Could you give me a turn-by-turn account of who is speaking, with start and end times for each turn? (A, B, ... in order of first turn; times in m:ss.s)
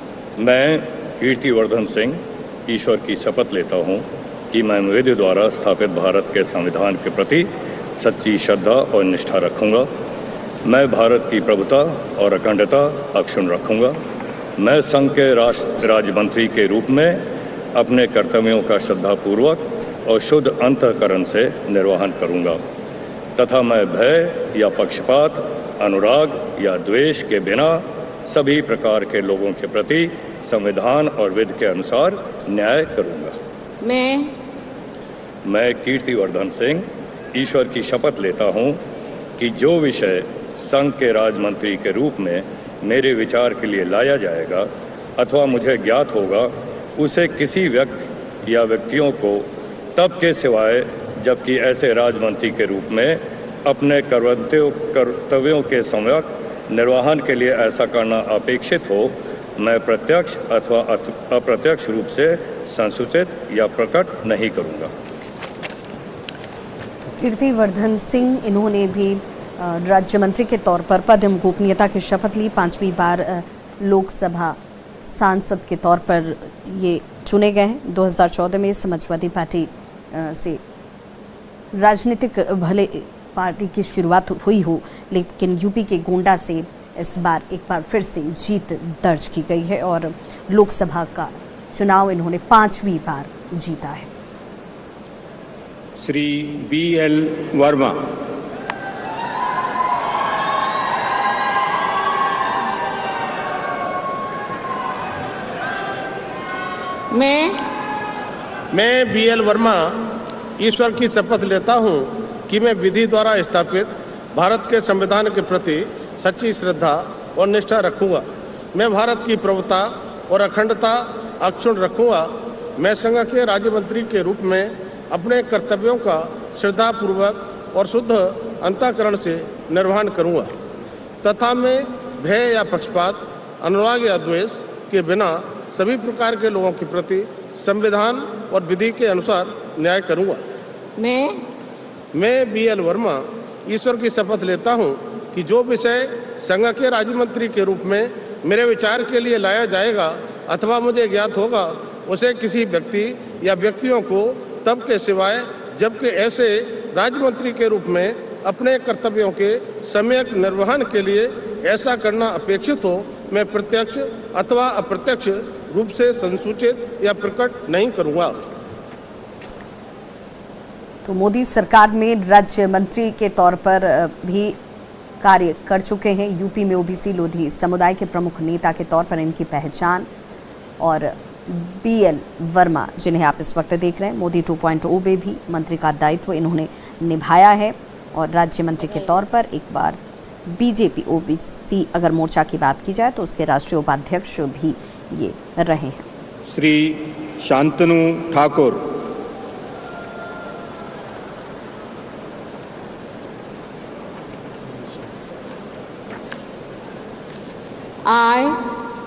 0:00.4-0:09.9 A
0:10.6-0:14.0 A
0:14.6-0:17.2 A
0:17.7-0:22.6 A
0:23.4-0:33.3 A
0:33.8-0:34.3 B
0:35.4-0:38.8 A
0:39.4-1:04.9 A
1:07.1-1:20.6 C
1:21.7-1:34.1 C
1:36.0-1:38.1 D
1:47.1-1:47.6 B
1:48.7-1:49.8 E
1:50.6-2:02.3 E
2:02.8-2:10.5 E
2:11.2-2:20.4 E
2:21.0-2:21.4 B
2:22.1-2:48.4 E
2:51.0-2:54.6 C
2:55.2-3:00.1 C
3:00.8-3:16.0 C
3:16.5-3:18.9 D
3:28.0-3:28.6 B